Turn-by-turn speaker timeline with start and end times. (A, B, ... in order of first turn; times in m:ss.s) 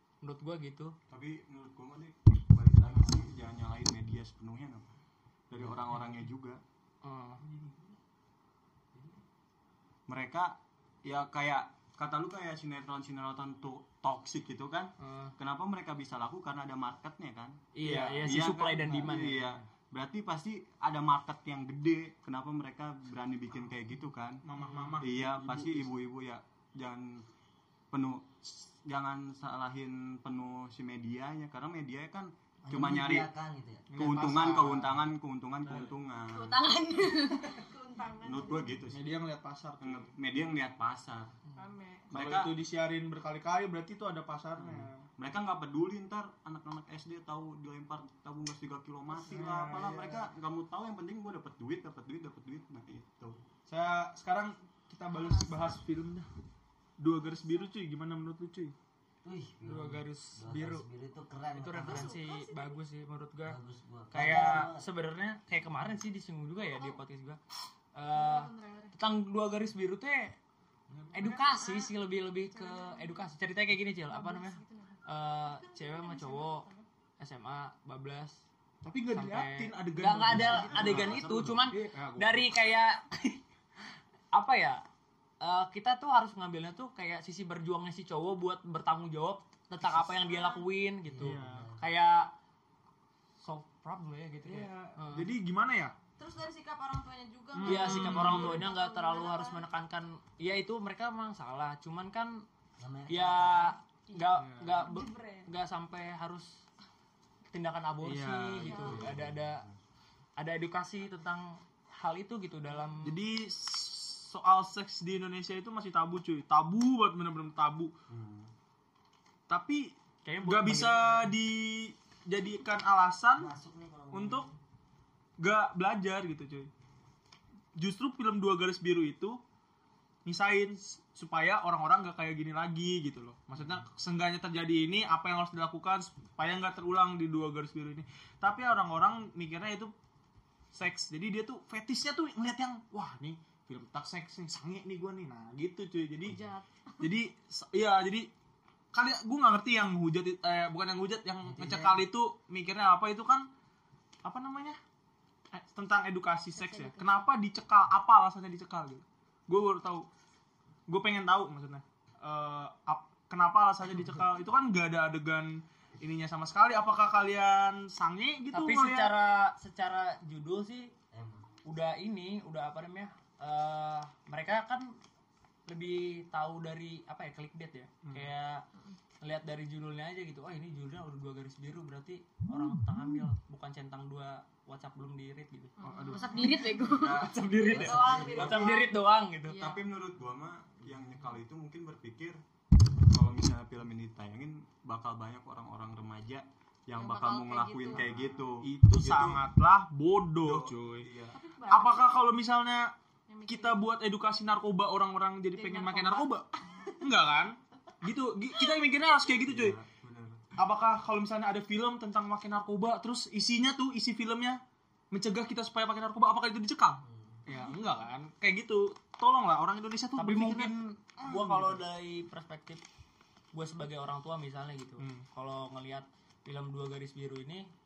0:00.2-0:00.9 A
0:01.1-0:04.9 B
0:05.5-0:06.6 B
0:07.0-0:07.4 A
0:10.1-0:24.4 B
0:15.0-0:15.3 A
0:17.7-0:19.5 A
0:17.8-0:18.2 C
0:24.4-0:25.9 C
0:24.6-0:25.0 A
0:25.0-0:27.2 B
0:27.9-0:33.3 B
0:32.7-0:33.9 D
0:33.9-0:35.0 C
0:33.9-0:36.6 B
0:35.6-0:36.0 C
0:36.3-0:37.6 E
0:37.0-0:38.8 F
0:38.2-0:39.0 B
0:38.9-0:40.1 C
0:39.8-0:41.4 B
0:41.5-0:42.1 F
0:42.1-0:42.6 B
0:42.1-0:45.0 C
0:44.6-0:53.4 B
0:49.1-0:50.3 C
0:53.7-0:56.3 C
0:55.1-0:55.8 F
0:57.0-0:58.7 C
0:57.2-0:57.7 F
0:59.2-1:02.1 D
0:59.6-1:00.9 A
1:01.6-1:03.6 A
1:01.8-1:02.8 F
1:03.4-1:04.8 D
1:04.1-1:07.4 A
1:06.6-1:07.0 F
1:07.9-1:10.4 A
1:08.1-1:09.0 F
1:11.1-1:16.6 A
1:11.1-1:13.3 F
1:14.1-1:16.8 F
1:17.2-1:18.4 A
1:18.8-1:22.5 C
1:19.1-1:23.4 A
1:20.6-1:21.2 F
1:24.3-1:24.8 A
1:25.4-1:32.3 A
1:30.1-1:30.7 F
1:31.0-1:31.8 D
1:31.2-1:31.7 C
1:33.4-1:35.3 A
1:34.4-1:35.9 C
1:36.2-1:39.7 F
1:37.5-1:38.6 C
1:37.6-1:42.4 A
1:42.8-1:43.8 D
1:43.1-1:46.6 A
1:44.1-1:45.5 F
1:44.4-1:44.8 C
1:47.5-1:49.6 A
1:48.0-1:48.8 C
1:48.6-1:49.1 F
1:48.7-1:49.7 B
1:50.4-1:53.2 A
1:53.0-1:57.9 C
1:58.1-1:58.5 B
1:59.5-2:03.5 C
2:00.2-2:01.3 A
2:03.4-2:04.6 D
2:04.1-2:04.5 C
2:05.4-2:06.7 C
2:07.8-2:09.4 C
2:10.2-2:19.9 C
2:20.7-2:26.4 C
2:26.2-2:27.1 F
2:27.0-2:28.3 C
2:28.9-2:33.5 C
2:31.4-2:32.0 D
2:34.2-2:34.8 C
2:35.5-2:40.1 C
2:36.6-2:37.2 F
2:40.9-2:49.1 C
2:48.5-2:50.9 A
2:51.1-2:51.4 D
2:51.6-2:54.9 A
2:55.7-2:58.6 A
2:58.0-2:58.3 C
2:59.2-3:05.7 A
3:05.8-3:06.9 F
3:05.8-3:06.3 C
3:06.1-3:07.3 E
3:06.8-3:08.7 B
3:07.2-3:09.6 A
3:07.5-3:09.9 F
3:07.8-3:08.6 D
3:09.5-3:12.4 B
3:13.1-3:19.4 B
3:16.9-3:18.0 F
3:18.6-3:21.1 C
3:20.4-3:21.4 B
3:21.3-3:22.2 F
3:21.7-3:22.9 C
3:23.3-3:23.9 F
3:23.5-3:26.5 C
3:25.5-3:26.9 F
3:27.0-3:29.8 C
3:29.4-3:30.4 B
3:30.6-3:34.6 C
3:35.1-3:41.8 C
3:37.0-3:37.4 D
3:40.2-3:42.8 A
3:43.5-3:47.7 A
3:45.0-3:45.2 C